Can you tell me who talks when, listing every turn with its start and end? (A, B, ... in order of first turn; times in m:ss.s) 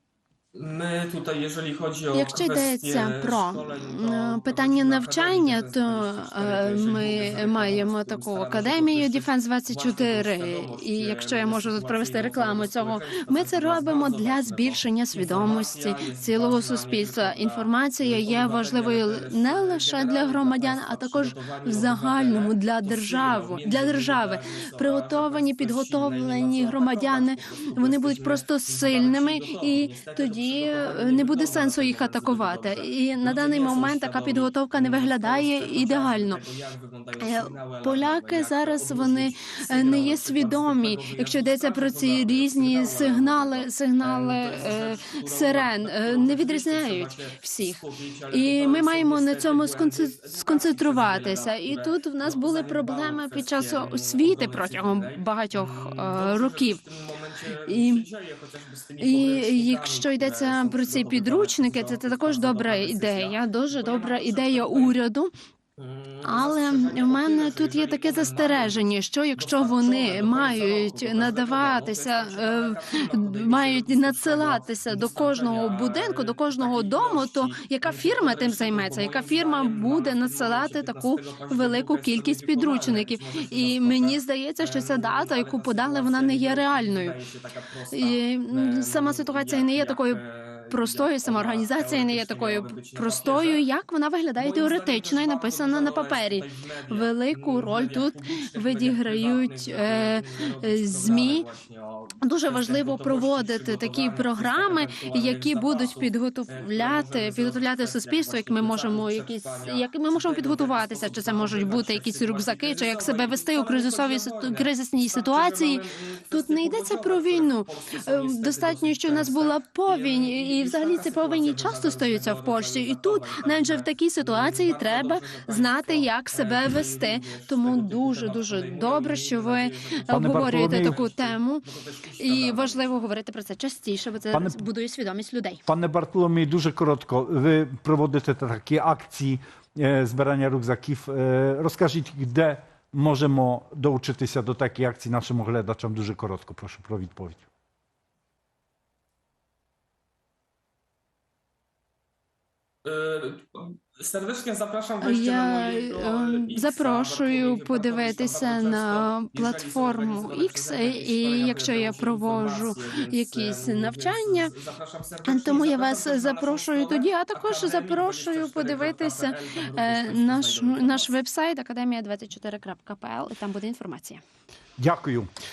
0:00.5-1:05.0 A
0:02.1-0:36.4 B
0:37.2-0:56.8 B
0:57.7-0:58.1 B
0:59.0-1:05.3 B
1:05.8-1:08.8 A
1:06.2-1:27.2 B
1:09.4-1:33.6 A
1:27.9-1:41.5 B
1:34.4-2:12.9 A
1:42.2-2:11.7 B
2:10.1-2:11.0 C
2:12.2-2:15.6 B
2:14.3-2:14.6 C
2:15.7-2:27.5 C
2:32.8-2:51.1 A
2:35.0-2:44.5 B
2:45.2-2:54.2 B
2:54.8-2:55.3 C